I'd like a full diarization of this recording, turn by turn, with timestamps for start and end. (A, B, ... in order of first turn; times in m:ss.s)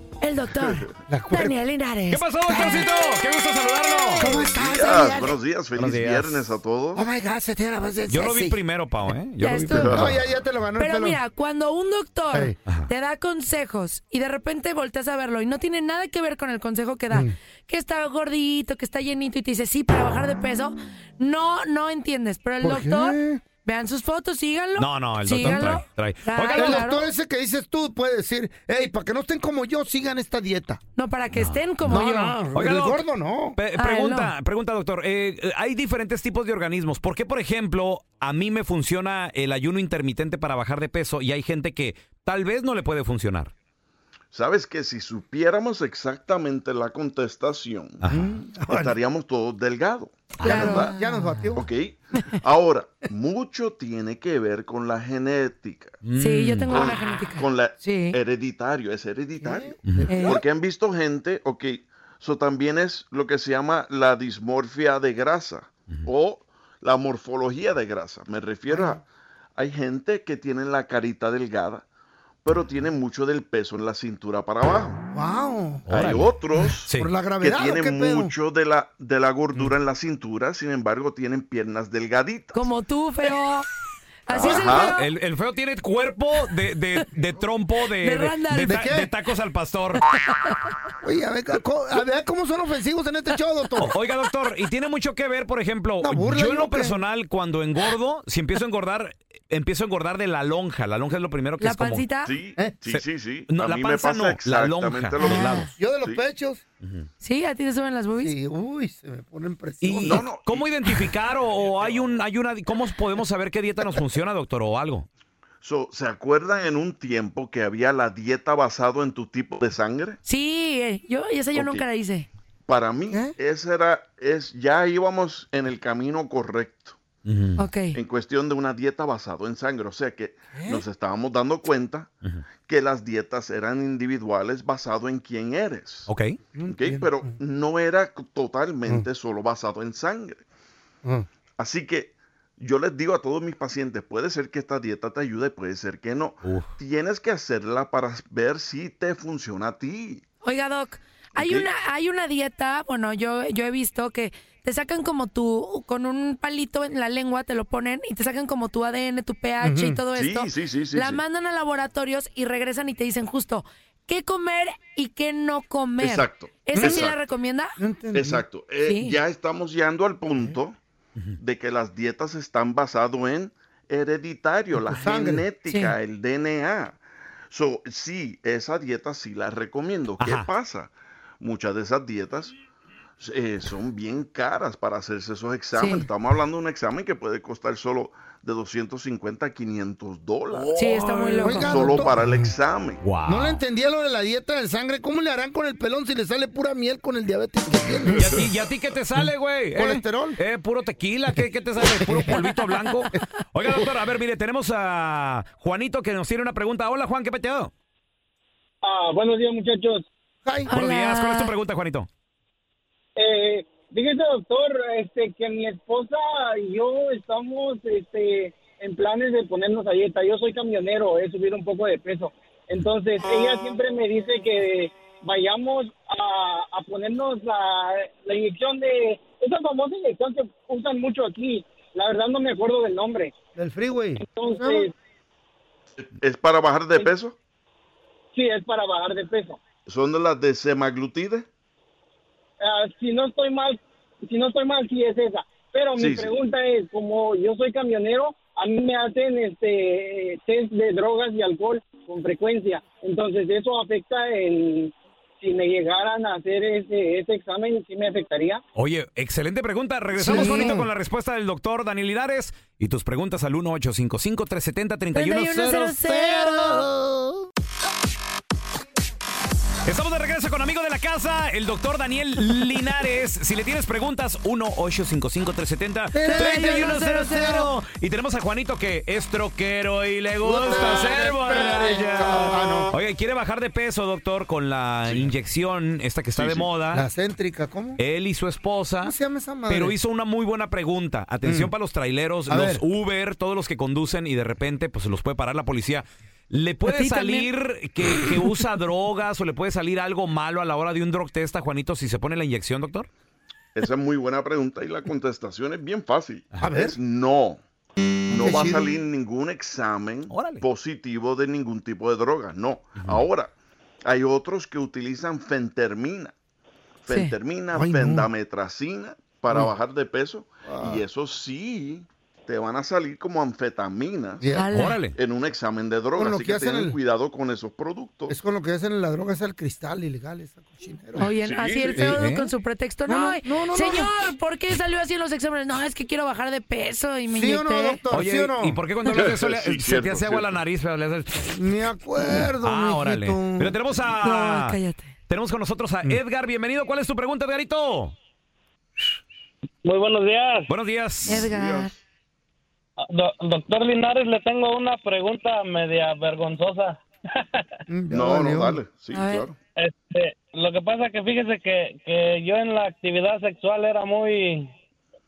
0:00.2-0:02.2 A
0:01.1-0:01.6 B
0:02.1-0:04.3 C
0:02.5-0:02.9 B
0:04.2-0:05.3 B
0:04.2-0:04.5 A
0:04.4-0:07.0 D
0:05.8-0:06.5 C
0:07.0-0:08.6 B
0:08.1-0:10.1 C
0:09.4-0:10.0 A
0:09.5-0:11.2 B
0:09.8-0:10.1 D
0:10.8-0:27.1 A
0:22.6-0:23.4 B
0:24.8-0:26.9 C
0:25.4-0:25.7 B
0:26.6-0:30.8 B
0:31.0-0:32.4 A
0:31.3-0:31.6 C
0:31.8-0:33.6 B
0:32.5-0:43.5 C
0:33.8-0:34.3 A
0:44.3-0:50.9 D
0:48.1-0:49.0 B
0:50.4-0:50.9 C
0:50.4-0:51.1 A
0:50.4-0:51.7 B
0:51.6-0:56.0 D
0:56.0-0:56.7 C
0:56.2-0:58.2 A
0:56.7-1:09.0 D
0:59.4-1:00.4 B
0:59.8-1:00.2 C
1:00.1-1:00.4 A
1:08.7-1:09.0 B
1:09.6-1:11.8 D
1:12.4-1:15.0 D
1:15.1-1:15.9 B
1:15.9-1:17.1 C
1:15.9-1:22.7 D
1:16.9-1:18.3 B
1:22.5-1:23.7 A
1:24.3-1:25.1 A
1:24.3-1:24.9 D
1:24.8-1:30.0 C
1:28.0-1:28.8 A
1:28.7-1:29.1 B
1:30.1-1:30.6 A
1:31.0-1:34.0 B
1:33.8-1:42.2 C
1:36.0-1:37.0 B
1:41.6-1:42.4 A
1:42.2-1:46.2 D
1:42.9-1:45.7 C
1:45.3-1:45.7 A
1:45.4-1:46.6 B
1:47.2-1:48.3 A
1:48.2-1:50.2 B
1:49.8-1:55.1 C
1:50.0-1:50.7 D
1:55.6-2:00.2 D
2:00.2-2:02.3 A
2:01.5-2:01.8 D
2:02.7-2:07.0 D
2:07.3-2:07.6 C
2:07.6-2:08.0 A
2:07.9-2:16.1 D
2:10.6-2:10.8 B
2:16.1-2:16.3 C
2:16.6-2:17.3 B
2:16.7-2:20.4 D
2:21.6-2:30.2 D
2:26.4-2:26.7 C
2:30.4-2:47.7 A
2:31.4-2:31.7 D
2:39.6-2:40.0 B
2:40.2-2:41.2 D
2:46.0-2:47.2 D
2:46.8-2:47.1 B
2:47.8-2:48.4 B
2:48.1-2:50.8 D
2:48.8-2:49.2 A
2:51.4-3:02.5 D
2:54.8-2:55.4 B
2:55.7-2:56.0 A
3:00.2-3:00.5 C
3:03.2-3:13.0 D
3:05.7-3:06.1 A
3:10.8-3:11.9 A
3:11.4-3:12.5 B
3:13.0-3:13.6 C
3:13.2-3:18.5 B
3:18.1-3:27.7 C
3:19.8-3:20.4 B
3:22.0-3:22.5 B
3:28.8-3:30.1 E
3:30.7-3:31.5 A
3:30.7-3:32.1 C
3:33.2-3:53.3 E
3:53.6-3:54.9 B
3:54.2-3:54.9 E
3:56.0-3:57.4 D
3:58.3-3:59.6 E
3:59.9-4:01.5 D
4:02.6-4:18.6 E
4:06.0-4:06.4 D
4:18.8-4:26.6 C
4:20.2-4:20.9 B
4:20.2-4:20.8 A
4:25.1-4:26.8 A
4:26.3-4:27.2 B
4:29.8-4:47.1 C
4:36.1-4:37.7 B
4:36.2-4:37.5 A
4:40.4-4:43.0 B
4:45.1-4:45.3 D
4:46.4-4:46.7 D
4:46.9-4:48.0 B
4:48.0-4:49.2 C
4:49.0-4:50.0 B
4:49.7-5:03.1 C
4:51.4-4:51.7 B
4:52.5-4:52.8 B
4:56.9-4:57.5 A
5:03.8-5:07.6 D
5:06.6-5:07.0 B
5:08.3-5:13.5 D
5:08.3-5:09.0 B
5:10.3-5:10.6 C
5:14.0-5:16.3 D
5:17.0-5:24.5 D
5:17.1-5:17.3 A
5:17.7-5:18.3 B
5:20.7-5:21.0 B
5:24.4-5:24.7 B
5:24.6-5:25.0 A
5:24.7-5:25.2 C
5:25.2-5:28.4 D
5:26.2-5:27.0 B
5:28.3-5:31.3 B
5:31.2-5:38.0 A
5:31.5-5:31.8 D
5:32.0-5:32.2 B
5:32.2-5:32.5 C
5:33.1-5:34.1 B
5:37.3-5:38.8 B
5:38.1-5:41.6 C
5:39.1-5:40.6 D
5:41.5-5:43.8 B
5:42.3-5:44.8 C
5:44.2-5:45.1 A
5:45.3-5:48.2 C
5:49.8-5:50.7 F
5:50.7-5:51.5 C
5:51.3-5:51.9 A
5:51.3-5:51.9 D
5:53.0-5:57.7 F
5:57.9-5:58.8 B
5:58.1-5:59.6 D
5:59.1-5:59.5 A
5:59.8-6:04.7 F